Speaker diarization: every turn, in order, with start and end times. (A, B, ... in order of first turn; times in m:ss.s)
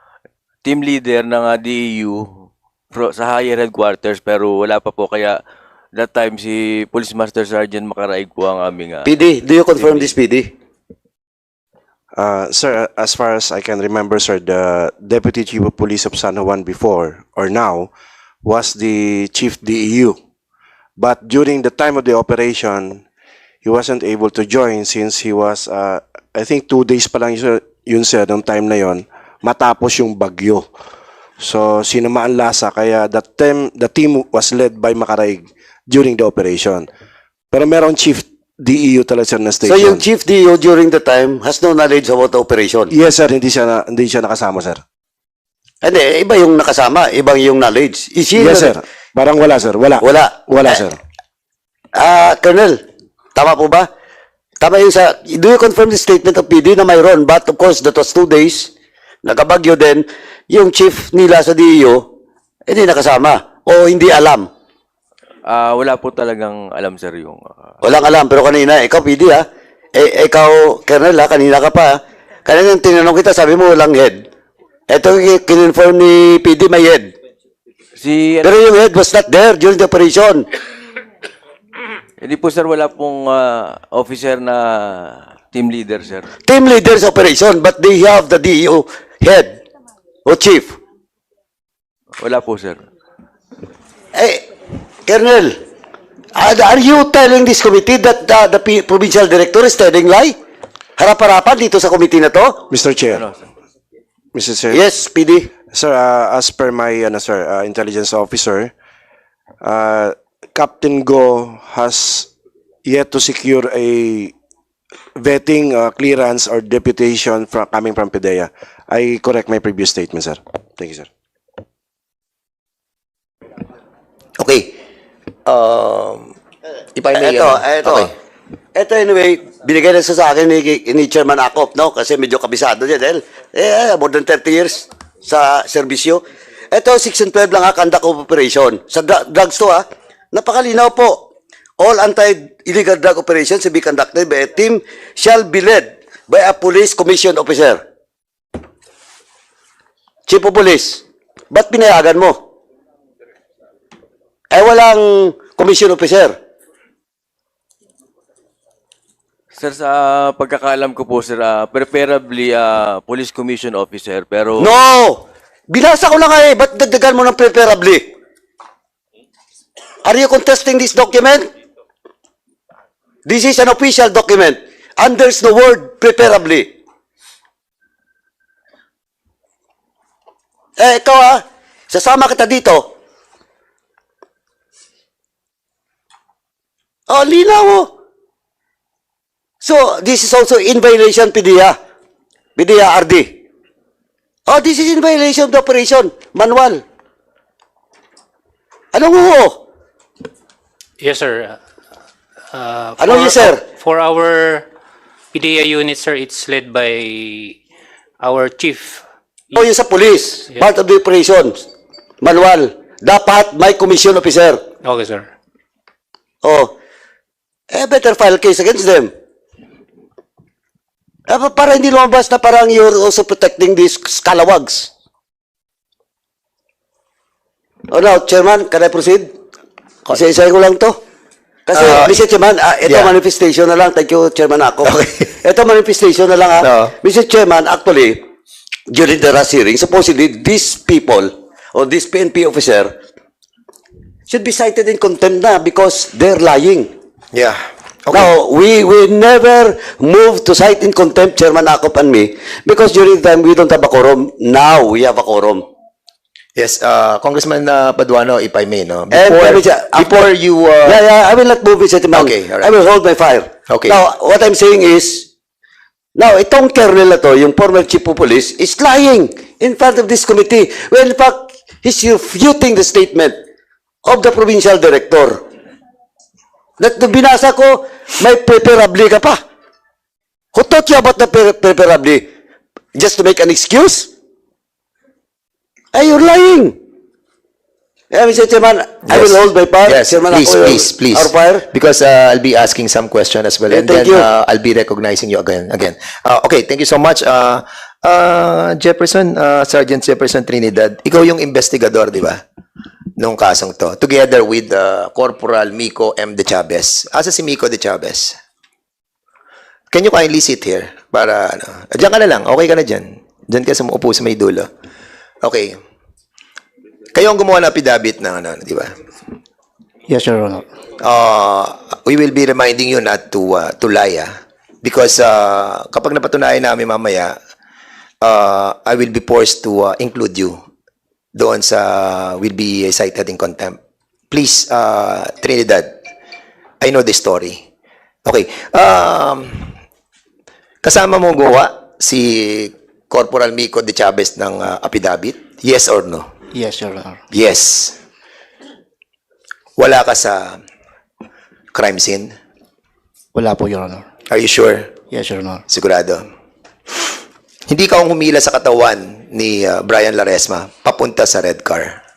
0:00.6-0:02.2 A
0:02.9-0:05.4 A
0:05.9-0:09.1 A
0:09.1-0:10.5 B
0:09.7-0:10.2 A
0:12.1-0:17.9 C
0:18.4-0:20.2 C
0:21.0-0:23.0 C
0:23.6-0:30.7 C
0:31.4-0:36.9 C
0:37.5-0:40.1 C
0:39.7-0:42.9 B
0:42.9-0:44.8 C
0:45.8-0:48.7 B
0:48.3-0:51.0 C
0:50.0-0:50.3 B
0:52.0-0:52.8 B
0:53.4-0:53.9 B
0:54.6-0:58.7 B
0:59.2-1:02.0 B
1:02.7-1:04.5 B
1:05.4-1:07.7 A
1:07.9-1:14.2 B
1:14.9-1:17.1 B
1:18.0-1:18.7 A
1:18.4-1:20.4 B
1:22.2-1:26.3 A
1:26.5-1:29.6 B
1:30.3-1:30.8 B
1:32.2-1:32.8 A
1:34.2-1:34.4 B
1:35.1-1:35.5 B
1:36.4-1:40.4 B
1:41.0-1:42.6 B
1:42.7-1:43.3 C
1:43.1-1:43.4 A
1:44.3-1:44.8 C
1:44.7-1:45.5 B
1:45.7-1:48.7 C
1:49.6-1:52.3 C
1:52.8-1:54.3 C
1:55.2-2:01.1 C
2:04.4-2:04.8 D
2:05.4-2:06.3 D
2:06.9-2:08.1 D
2:07.1-2:08.1 B
2:08.8-2:21.2 B
2:21.8-2:27.8 B
2:30.3-2:32.4 B
2:34.5-2:36.3 B
2:39.6-2:44.8 A
2:44.6-2:48.1 B
2:50.0-2:51.5 B
2:53.3-2:56.7 B
3:00.8-3:02.9 B
3:07.1-3:07.9 B
3:09.6-3:11.8 B
3:12.6-3:13.4 B
3:14.5-3:16.8 B
3:18.9-3:19.6 B
3:21.0-3:21.6 E
3:22.5-3:24.7 E
3:23.0-3:23.5 B
3:25.3-3:27.6 E
3:28.2-3:29.8 E
3:29.6-3:31.6 B
3:32.2-3:34.6 B
3:34.8-3:35.3 E
3:36.4-3:36.7 B
3:37.7-3:39.1 B
3:41.3-3:44.9 B
3:47.9-3:49.3 B
3:50.1-3:51.0 B
3:51.7-3:54.9 B
3:51.7-3:52.2 D
3:52.8-3:53.2 D
3:54.8-3:55.3 D
3:55.4-3:58.2 B
3:56.6-3:56.9 D
3:58.9-4:02.9 B
4:04.3-4:06.9 B
4:07.3-4:08.3 D
4:08.1-4:15.6 B
4:16.6-4:21.0 D
4:19.1-4:20.2 B
4:20.8-4:25.3 B
4:22.1-4:22.8 D
4:23.7-4:24.0 D
4:26.2-4:33.4 B
4:34.1-4:35.4 B
4:36.8-4:39.4 B
4:40.6-4:42.2 B
4:43.0-4:44.1 B
4:45.9-4:46.8 B
4:48.1-4:51.6 B
4:49.0-5:02.4 D
4:53.7-4:54.2 B
5:03.2-5:08.4 D
5:09.9-5:14.7 D
5:15.4-5:15.8 D
5:17.1-5:18.9 D
5:20.1-5:20.6 F
5:21.0-5:24.3 D
5:24.8-5:27.4 D
5:28.2-5:30.6 D
5:31.3-5:33.8 D
5:34.3-5:35.9 D
5:36.8-5:37.6 D
5:38.2-5:39.7 D
5:40.8-5:46.3 D
5:46.5-5:47.2 F
5:47.3-5:48.0 D
5:49.8-5:50.6 D
5:51.7-5:52.3 D
5:53.3-5:54.0 F
5:54.3-5:54.9 D
5:55.1-5:55.6 F
5:55.7-5:56.2 D
5:57.7-6:02.0 D